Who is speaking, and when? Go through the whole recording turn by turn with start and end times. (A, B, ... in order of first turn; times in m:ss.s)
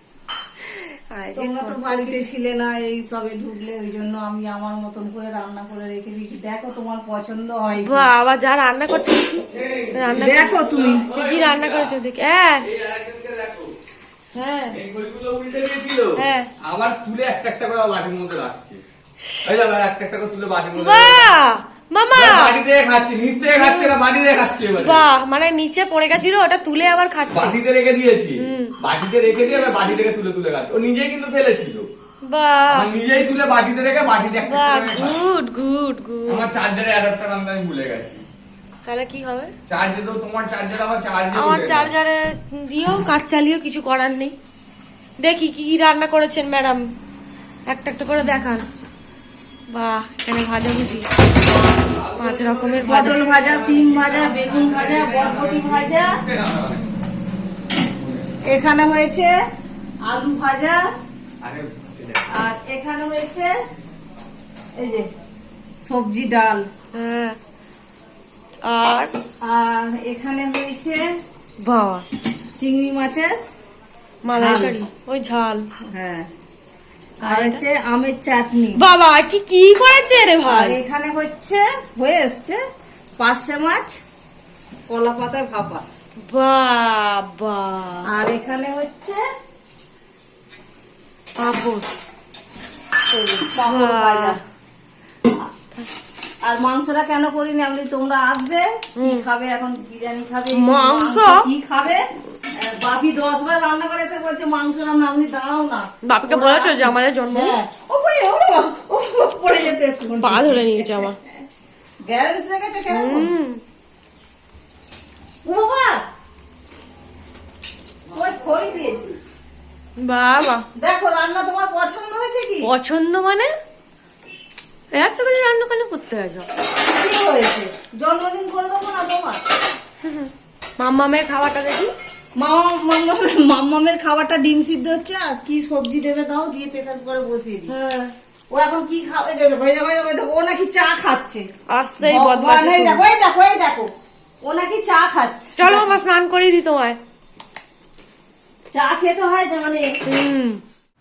0:01.1-0:02.2 A
0:01.3-0:08.1 B
0:07.8-0:12.6 A
0:09.5-0:11.9 C
0:10.1-0:11.0 B
0:12.6-0:13.7 C
0:14.3-0:14.8 A
0:14.7-0:18.8 C
0:16.2-0:16.5 A
0:19.4-0:21.4 C
0:20.7-0:22.6 A
0:22.1-0:25.0 C
0:23.5-0:23.9 A
0:24.8-0:27.6 A
0:27.3-0:31.9 C
0:28.4-0:28.7 A
0:32.2-0:32.9 A
0:32.7-0:35.2 C
0:34.3-0:36.4 A
0:36.3-0:38.2 C
0:38.8-0:39.5 A
0:39.7-0:41.9 C
0:41.3-0:44.3 A
0:45.2-0:46.8 A
0:47.7-0:48.6 A
0:49.7-0:51.1 A
0:51.6-0:56.9 C
0:52.2-0:53.2 A
0:52.8-0:56.2 B
0:57.9-0:58.3 C
0:58.4-0:59.4 B
1:00.0-1:00.8 B
1:01.4-1:02.3 C
1:02.3-1:03.5 B
1:04.8-1:05.1 B
1:05.8-1:06.7 B
1:06.9-1:07.4 A
1:08.6-1:09.1 A
1:09.4-1:11.0 B
1:11.6-1:12.0 A
1:12.6-1:13.4 B
1:14.2-1:15.7 A
1:14.3-1:14.8 B
1:15.9-1:16.3 B
1:17.2-1:17.6 A
1:17.2-1:18.8 B
1:18.8-1:20.8 A
1:20.4-1:22.6 B
1:23.2-1:24.0 B
1:24.9-1:25.8 B
1:26.3-1:28.1 A
1:28.1-1:29.2 B
1:31.4-1:31.9 A
1:33.1-1:34.4 B
1:33.6-1:34.4 A
1:36.4-1:42.0 B
1:39.0-1:39.2 A
1:40.5-1:41.4 A
1:42.6-1:51.1 B
1:46.0-1:47.6 A
1:50.2-1:51.2 A
1:52.0-1:53.3 B
1:52.9-1:53.6 A
1:55.4-1:56.0 B
1:58.1-1:59.1 B
2:00.0-2:00.6 A
2:00.8-2:02.7 B
2:02.6-2:03.5 A
2:04.9-2:06.5 A
2:06.7-2:09.4 B
2:10.0-2:11.9 A
2:12.4-2:17.7 B
2:17.7-2:18.1 A
2:18.5-2:21.5 B
2:21.7-2:23.0 A
2:22.0-2:23.9 B
2:24.4-2:25.9 B
2:25.6-2:27.0 A
2:28.7-2:29.8 B
2:30.1-2:30.6 A